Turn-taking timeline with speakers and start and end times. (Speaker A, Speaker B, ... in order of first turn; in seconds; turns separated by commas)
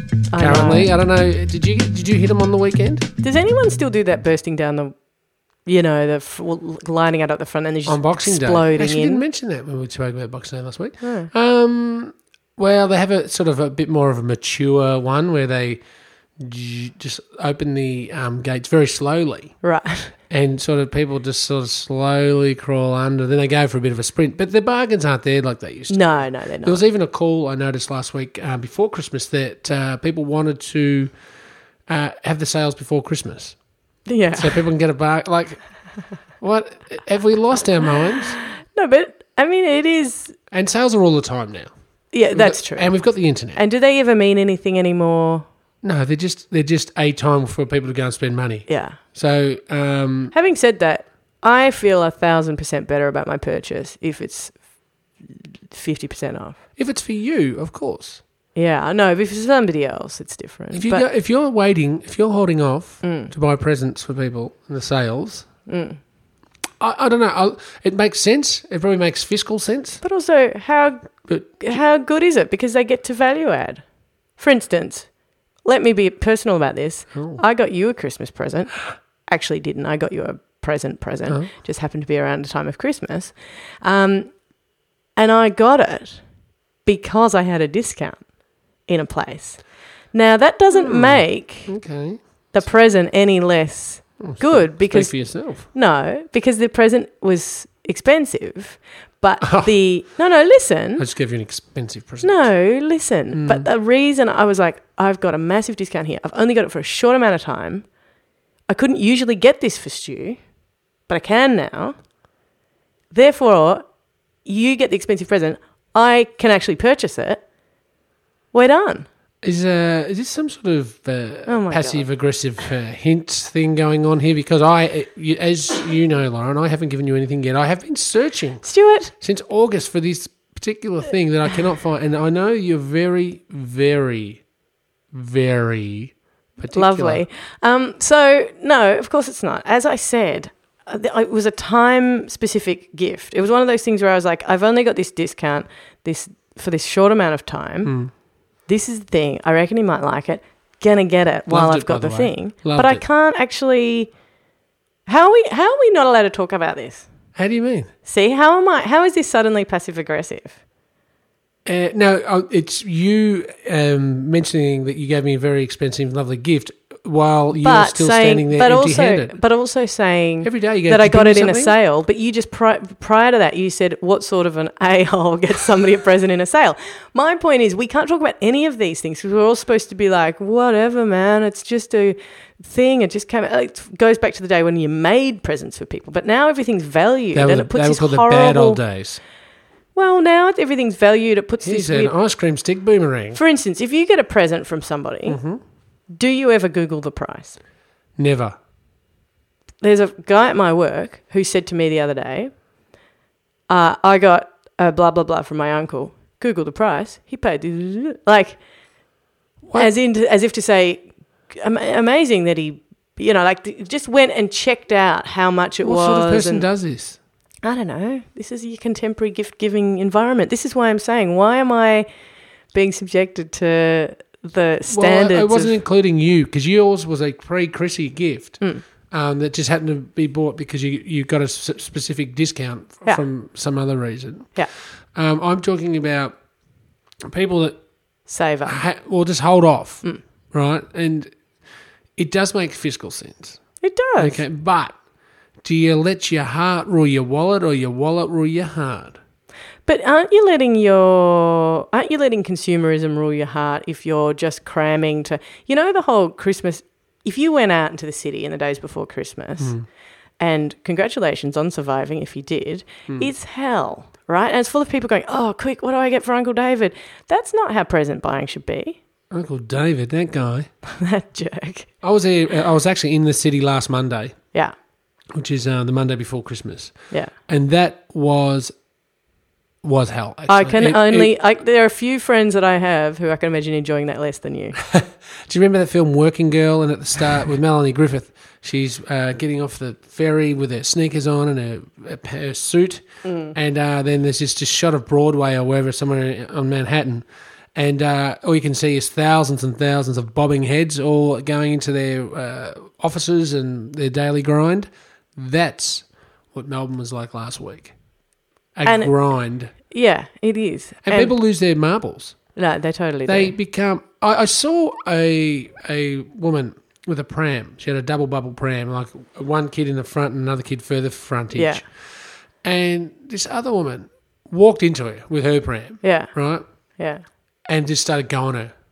Speaker A: 0.3-0.9, Speaker B: 0.4-3.1, Speaker A: 3.2-5.0, Speaker A: 5.7-9.2, Speaker B: 7.9-15.8, Speaker A: 11.0-11.3, Speaker B: 16.4-19.5, Speaker A: 19.6-20.2, Speaker B: 20.3-31.1, Speaker A: 25.9-26.8, Speaker B: 31.9-33.6, Speaker A: 34.0-34.6, Speaker B: 34.3-35.6, Speaker B: 36.4-38.4, Speaker A: 38.6-40.4, Speaker B: 40.5-41.7, Speaker A: 42.1-45.5, Speaker B: 42.3-43.6, Speaker B: 45.8-50.3, Speaker A: 48.7-49.0, Speaker A: 50.3-54.6, Speaker A: 55.2-56.6, Speaker B: 56.8-58.2, Speaker A: 58.5-61.1, Speaker B: 60.7-65.5, Speaker A: 63.0-63.3, Speaker A: 65.7-66.0, Speaker B: 66.8-70.0, Speaker A: 70.0-73.8, Speaker B: 71.3-71.6, Speaker A: 74.4-75.1, Speaker A: 75.6-84.3, Speaker B: 77.1-77.4, Speaker A: 85.2-86.2, Speaker A: 86.8-88.2, Speaker A: 88.9-91.8, Speaker B: 90.7-92.2, Speaker A: 92.5-101.0, Speaker B: 94.2-95.7, Speaker B: 99.4-99.7, Speaker B: 101.0-102.5, Speaker A: 102.2-107.9, Speaker B: 103.3-103.7, Speaker A: 108.7-110.4, Speaker A: 111.1-112.0, Speaker A: 113.1-113.8, Speaker A: 114.5-117.4, Speaker A: 118.5-119.1, Speaker B: 119.4-128.7, Speaker A: 121.5-122.1, Speaker A: 128.6-129.1, Speaker B: 129.2-134.4, Speaker B: 135.1-137.2, Speaker A: 136.7-147.9, Speaker B: 147.8-148.1, Speaker A: 148.7-154.1, Speaker B: 151.5-153.0, Speaker A: 155.1-157.1, Speaker B: 157.4-157.9, Speaker A: 158.1-160.6, Speaker B: 161.6-169.3, Speaker A: 167.6-188.8, Speaker B: 170.4-171.7, Speaker B: 187.3-189.2, Speaker A: 189.9-192.1, Speaker B: 191.6-193.4, Speaker A: 193.3-195.4, Speaker B: 195.2-195.6, Speaker A: 196.1-197.6, Speaker B: 198.2-198.6, Speaker A: 199.8-202.5, Speaker A: 203.7-208.6, Speaker B: 209.6-209.9, Speaker A: 209.8-216.7, Speaker B: 215.8-217.2, Speaker A: 217.6-222.1, Speaker A: 222.7-225.8, Speaker B: 224.9-234.5, Speaker B: 235.2-236.3, Speaker B: 237.3-237.8, Speaker A: 238.3-238.8, Speaker B: 238.6-241.3, Speaker B: 242.2-243.6, Speaker A: 243.8-244.4, Speaker B: 244.2-245.0, Speaker B: 245.6-249.2, Speaker A: 249.9-259.8, Speaker B: 259.6-259.9, Speaker A: 260.4-269.0, Speaker B: 269.3-270.7, Speaker A: 270.9-271.9, Speaker B: 272.0-274.4, Speaker B: 275.4-277.0, Speaker B: 277.5-278.7, Speaker B: 279.8-281.4, Speaker A: 280.5-284.8, Speaker B: 284.8-307.9, Speaker A: 293.2-293.6, Speaker B: 308.8-309.7, Speaker A: 308.9-309.1, Speaker A: 309.9-311.3, Speaker B: 311.1-312.4, Speaker A: 312.6-313.6, Speaker B: 313.2-321.9, Speaker A: 321.5-321.8, Speaker B: 322.6-326.6, Speaker A: 326.0-326.3, Speaker B: 327.7-328.7